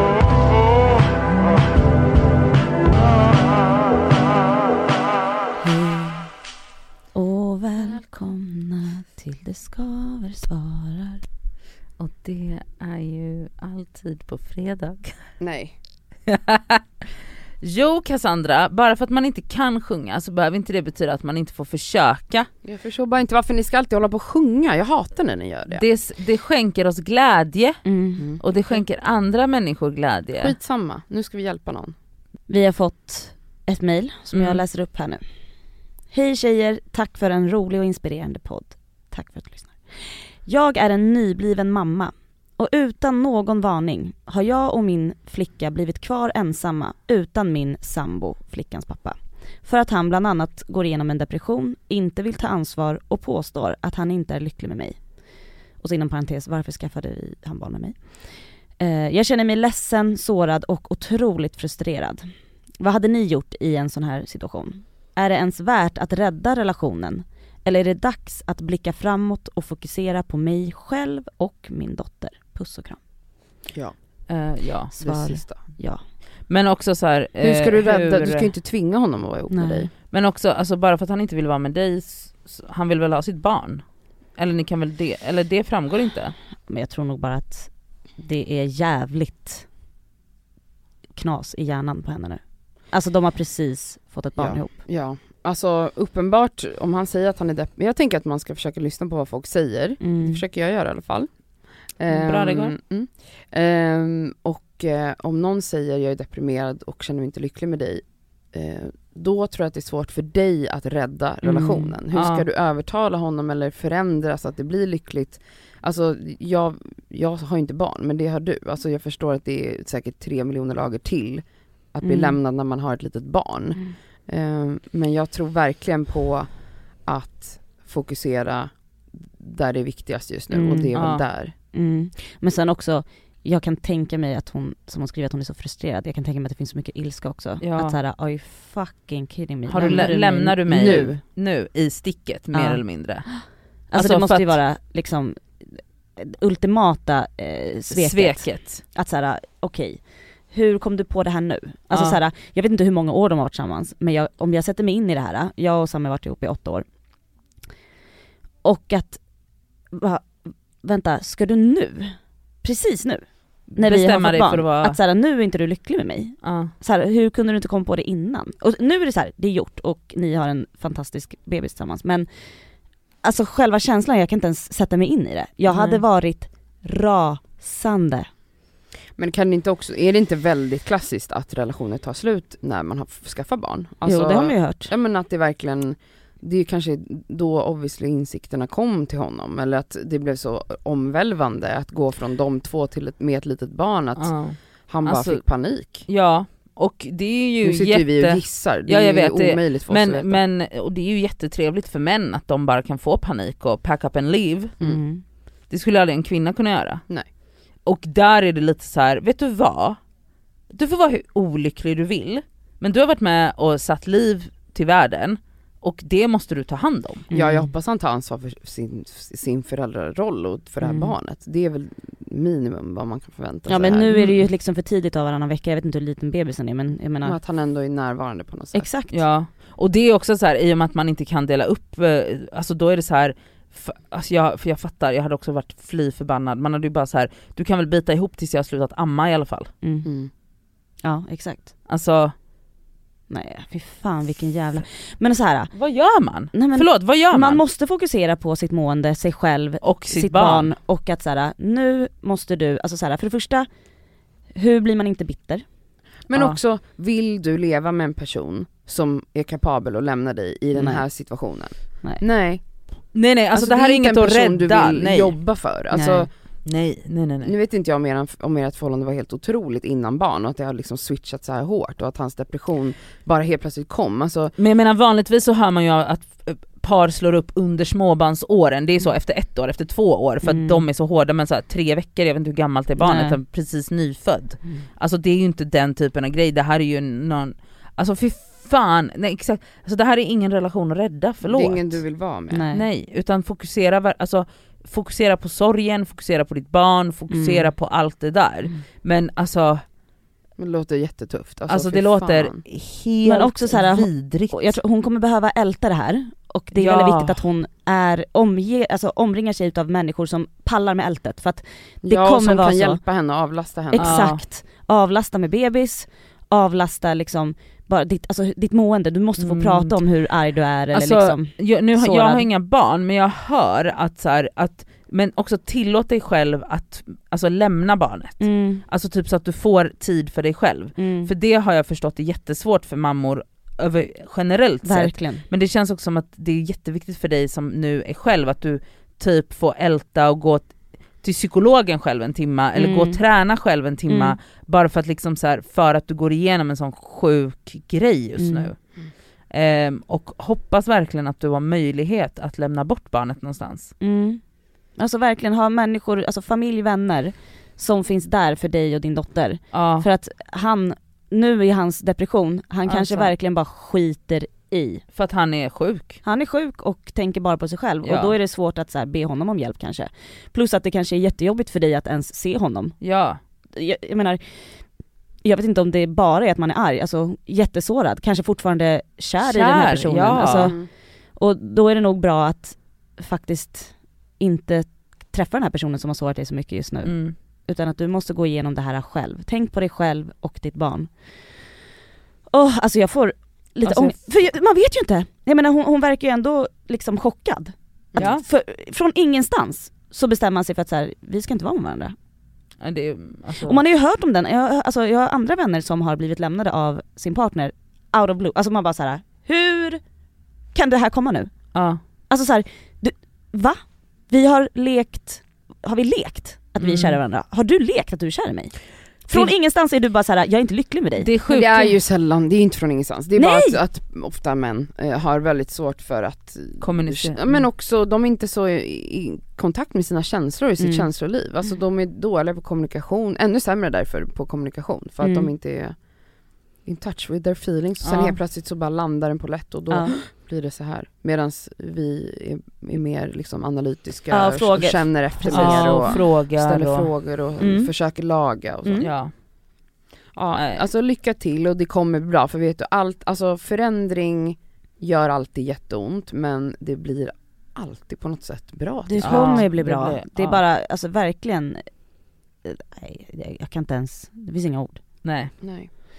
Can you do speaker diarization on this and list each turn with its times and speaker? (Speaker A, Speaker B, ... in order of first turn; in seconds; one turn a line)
Speaker A: 5.6-6.3
Speaker A: 7.1-11.2
Speaker B: 12.0-15.4
Speaker C: 15.4-15.8
Speaker B: 16.3-16.8
Speaker B: 17.6-22.5
Speaker C: 22.6-25.8
Speaker B: 25.7-30.6
Speaker A: 27.8-28.3
Speaker C: 28.2-28.8
Speaker C: 30.4-31.9
Speaker A: 32.5-73.0
Speaker B: 34.3-34.6
Speaker C: 73.7-74.0
Speaker B: 74.3-75.0
Speaker C: 75.0-75.6
Speaker A: 75.0-76.1
Speaker B: 75.7-78.5
Speaker C: 77.4-79.9
Speaker A: 79.5-79.9
Speaker B: 80.1-86.3
Speaker A: 86.7-89.7
Speaker A: 91.1-94.8
Speaker C: 94.4-131.6
Speaker A: 100.0-100.4
Speaker B: 102.1-102.7
Speaker A: 111.4-112.0
Speaker B: 112.1-112.5
Speaker A: 122.0-122.4
Speaker A: 130.5-140.6
Speaker B: 131.0-131.2
Speaker B: 137.6-138.0
Speaker B: 139.7-144.6
Speaker C: 139.8-140.1
Speaker C: 140.7-141.2
Speaker A: 142.5-156.9
Speaker B: 147.9-148.8
Speaker B: 151.9-152.2
Speaker A: 158.6-178.3
Speaker B: 163.7-165.0
Speaker B: 166.4-166.7
Speaker B: 175.7-176.0
Speaker C: 179.2-196.1
Speaker A: 184.1-184.9
Speaker B: 194.2-204.8
Speaker C: 197.6-200.4
Speaker A: 204.8-205.2
Speaker B: 205.7-207.1
Speaker B: 207.7-210.0
Speaker B: 210.7-217.3
Speaker A: 217.3-217.7
Speaker C: 217.3-224.1
Speaker A: 220.8-221.2
Speaker A: 223.7-227.4
Speaker B: 224.1-224.4
Speaker C: 227.2-228.9
Speaker A: 228.7-229.2
Speaker B: 229.1-239.7
Speaker A: 239.8-241.7
Speaker C: 240.1-240.3
Speaker B: 241.9-242.4
Speaker A: 243.3-245.7
Speaker B: 245.7-247.6
Speaker A: 246.5-255.7
Speaker B: 249.8-250.7
Speaker C: 256.3-266.4
Speaker B: 256.3-256.6
Speaker A: 260.7-261.3
Speaker B: 263.1-265.4
Speaker A: 265.9-266.3
Speaker B: 266.6-267.5
Speaker C: 267.4-274.6
Speaker B: 274.6-292.1
Speaker A: 280.4-280.9
Speaker A: 283.0-283.4
Speaker A: 284.6-284.9
Speaker C: 291.4-292.6
Speaker A: 292.5-292.9
Speaker B: 292.7-299.9
Speaker A: 297.3-297.8
Speaker C: 300.6-302.6
Speaker B: 301.7-304.8
Speaker A: 303.2-313.0
Speaker B: 306.8-307.4
Speaker C: 312.0-314.2
Speaker A: 313.9-322.5
Speaker B: 314.0-314.4
Speaker B: 319.4-320.1
Speaker B: 320.9-353.9
Speaker A: 328.4-328.9
Speaker A: 330.9-331.3
Speaker A: 334.8-335.5
Speaker A: 342.8-343.2
Speaker A: 344.1-344.4
Speaker A: 348.4-348.7
Speaker A: 354.0-365.1
Speaker B: 359.7-360.1
Speaker B: 362.9-363.3
Speaker B: 365.1-366.2
Speaker A: 366.2-391.8
Speaker B: 368.0-368.4
Speaker B: 373.0-373.4
Speaker B: 379.4-380.8
Speaker C: 380.5-380.9
Speaker B: 387.0-387.4
Speaker A: 392.5-402.2
Speaker B: 393.9-394.6
Speaker B: 398.2-398.4
Speaker B: 402.8-403.8
Speaker A: 403.6-421.3
Speaker B: 411.7-412.0
Speaker B: 416.8-417.2
Speaker B: 421.2-422.0
Speaker C: 421.5-449.6
Speaker A: 423.4-423.8
Speaker B: 426.8-427.4
Speaker A: 430.8-431.1
Speaker A: 435.2-435.5
Speaker B: 438.0-438.4
Speaker A: 439.9-440.2
Speaker A: 444.3-446.2
Speaker B: 445.5-447.1
Speaker A: 447.6-447.9
Speaker A: 448.8-449.1
Speaker B: 449.0-449.3
Speaker C: 450.3-459.7
Speaker B: 450.5-450.9
Speaker A: 459.1-465.0
Speaker B: 459.2-460.6
Speaker B: 465.2-465.5
Speaker C: 465.6-465.9